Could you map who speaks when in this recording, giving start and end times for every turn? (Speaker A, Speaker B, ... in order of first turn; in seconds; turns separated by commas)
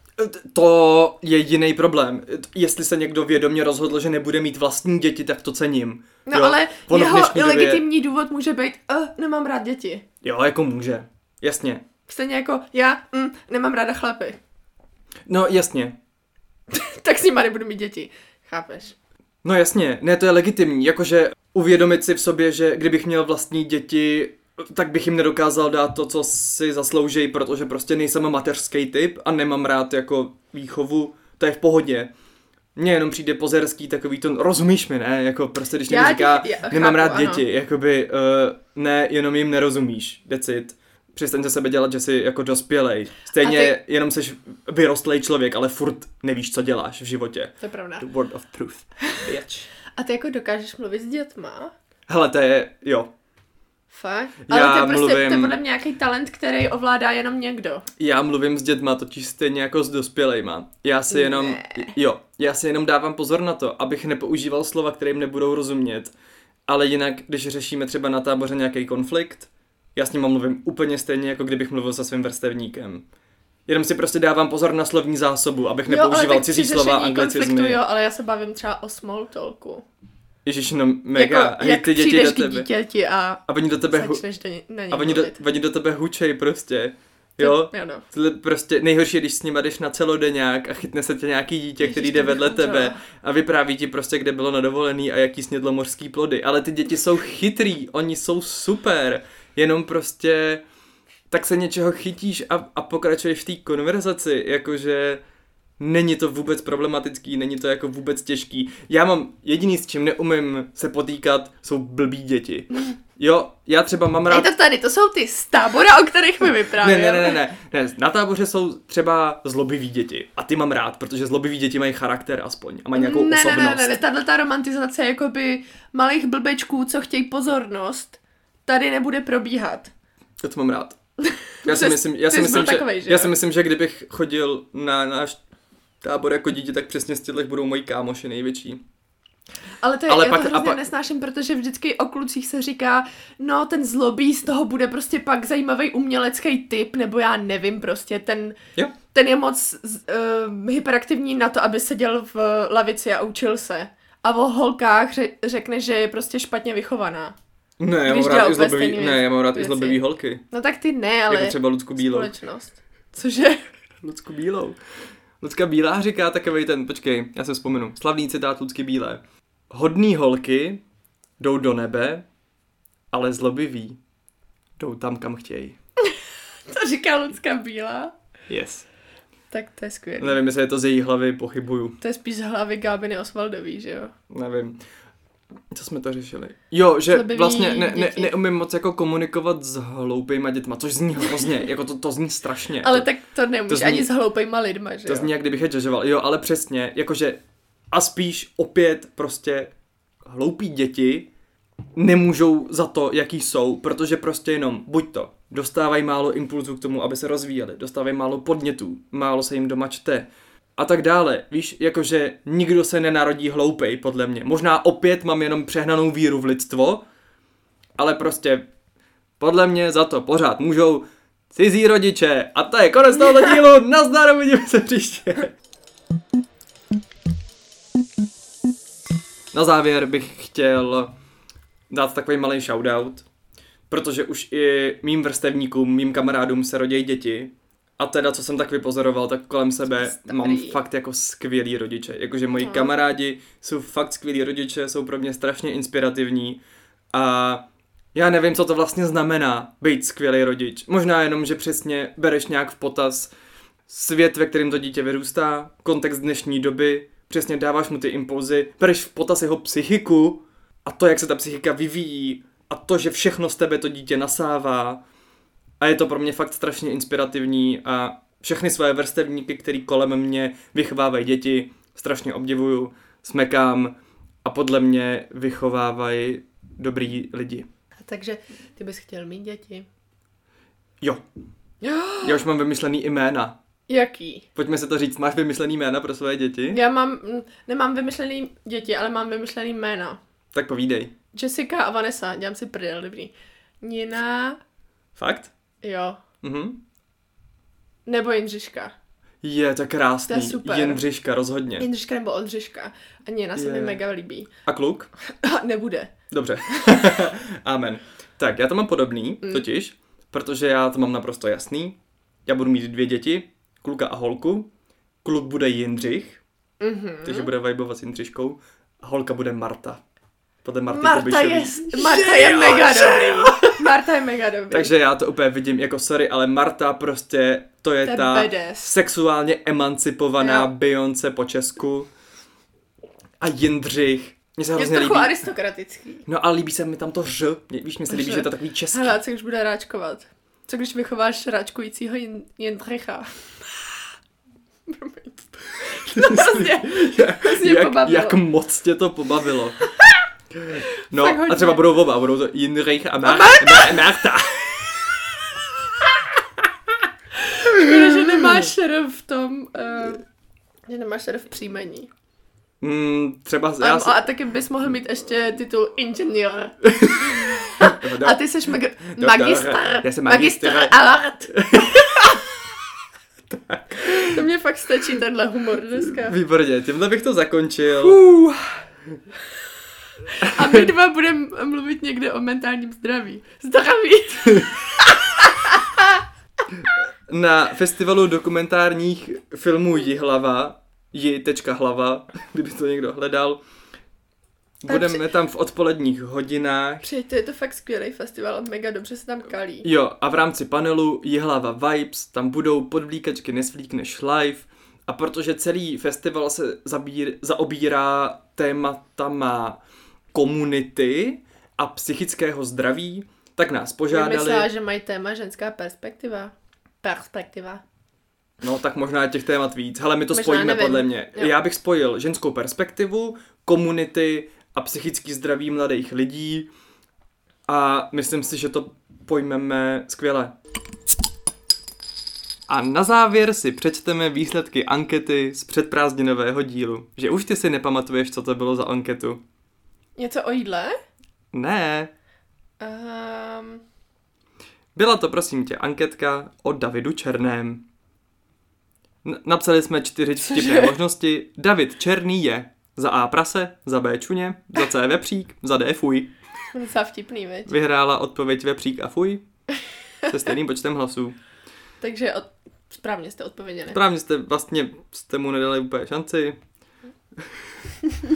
Speaker A: 0.2-7.9, Speaker B: 6.3-10.0, Speaker A: 10.2-11.8, Speaker B: 12.1-14.4, Speaker A: 15.3-16.0, Speaker B: 16.7-18.9, Speaker A: 19.4-32.1, Speaker A: 32.8-49.7, Speaker B: 35.9-37.5, Speaker B: 43.4-43.8, Speaker B: 47.6-48.1, Speaker B: 49.9-51.7, Speaker A: 52.1-53.1, Speaker B: 53.9-57.9, Speaker A: 54.5-55.6, Speaker A: 58.0-66.1, Speaker B: 61.1-62.0, Speaker A: 66.7-73.1, Speaker A: 73.7-77.8, Speaker B: 75.9-79.8, Speaker A: 80.5-82.7, Speaker B: 81.2-85.4, Speaker A: 83.5-84.2, Speaker A: 84.9-100.6, Speaker B: 87.4-88.0, Speaker B: 91.8-93.0, Speaker A: 101.3-105.2, Speaker A: 105.8-114.5, Speaker B: 114.3-117.4, Speaker A: 116.8-124.0, Speaker B: 122.9-129.9, Speaker A: 130.4-131.0, Speaker B: 131.2-133.3, Speaker A: 131.7-135.4, Speaker A: 136.0-138.8, Speaker B: 139.8-148.6, Speaker A: 140.1-140.8, Speaker B: 149.1-157.3, Speaker A: 157.8-160.4, Speaker B: 158.1-163.7, Speaker A: 161.3-162.3, Speaker A: 164.0-164.8, Speaker A: 165.4-170.8, Speaker A: 171.4-172.3, Speaker A: 173.1-174.0, Speaker A: 174.8-175.8, Speaker B: 176.7-178.1, Speaker A: 178.5-178.9, Speaker B: 179.5-180.4, Speaker A: 180.2-182.0, Speaker B: 182.0-184.1, Speaker A: 184.3-184.8, Speaker A: 185.7-193.1, Speaker B: 187.1-188.3, Speaker B: 192.8-195.3, Speaker A: 193.7-194.1, Speaker A: 195.1-197.4, Speaker A: 197.9-199.7, Speaker A: 200.2-201.3, Speaker A: 202.0-217.1, Speaker A: 218.0-218.7, Speaker A: 219.4-225.5, Speaker A: 229.5-231.1, Speaker A: 231.9-233.3, Speaker A: 233.9-246.6, Speaker B: 239.9-240.8, Speaker B: 242.6-242.9, Speaker A: 247.1-247.6, Speaker A: 248.1-253.3, Speaker A: 253.9-265.0, Speaker A: 265.8-277.7, Speaker B: 278.0-279.9, Speaker B: 281.8-282.4, Speaker A: 282.2-283.6, Speaker B: 283.9-284.5, Speaker A: 284.6-286.8, Speaker B: 286.7-290.2, Speaker A: 290.5-291.1, Speaker B: 291.3-294.6, Speaker A: 295.2-295.5, Speaker B: 295.8-296.2, Speaker A: 296.4-296.8, Speaker B: 298.1-298.9, Speaker A: 299.4-301.9, Speaker B: 300.3-301.1, Speaker B: 301.8-304.5, Speaker A: 303.6-304.0, Speaker A: 304.6-305.1, Speaker B: 305.3-306.1, Speaker A: 306.3-314.7, Speaker A: 315.2-316.4, Speaker B: 316.8-317.5, Speaker A: 317.2-320.0, Speaker A: 320.6-323.8, Speaker B: 320.9-324.9, Speaker A: 324.7-332.1, Speaker B: 328.1-328.9, Speaker B: 330.4-330.7, Speaker A: 333.4-335.4, Speaker B: 334.8-336.2, Speaker A: 336.3-339.2, Speaker B: 338.1-343.9, Speaker B: 344.9-348.4, Speaker A: 345.9-349.8, Speaker A: 350.5-355.3, Speaker B: 351.0-351.8, Speaker B: 353.2-354.2, Speaker B: 357.4-360.2, Speaker B: 360.9-362.1, Speaker A: 362.8-364.2, Speaker B: 363.8-372.4, Speaker A: 366.9-368.4, Speaker A: 369.1-371.0, Speaker A: 371.5-372.5, Speaker A: 373.5-374.5, Speaker B: 374.0-376.4, Speaker A: 376.0-378.3, Speaker B: 378.3-378.6, Speaker B: 380.3-386.2, Speaker A: 380.4-380.9, Speaker A: 387.3-393.6, Speaker A: 394.8-397.1, Speaker B: 394.9-395.3, Speaker B: 397.0-399.9, Speaker A: 399.8-409.8, Speaker A: 410.3-414.7, Speaker B: 414.1-417.8, Speaker A: 418.6-426.7, Speaker B: 420.3-421.6, Speaker A: 427.7-430.5, Speaker A: 432.7-439.4, Speaker B: 440.2-441.0, Speaker A: 441.5-442.1, Speaker B: 442.8-443.8, Speaker A: 444.9-447.9, Speaker A: 449.2-456.3, Speaker B: 450.6-450.9, Speaker B: 456.7-457.7, Speaker A: 457.7-459.4, Speaker A: 460.3-461.4, Speaker B: 462.0-464.0, Speaker A: 463.9-466.6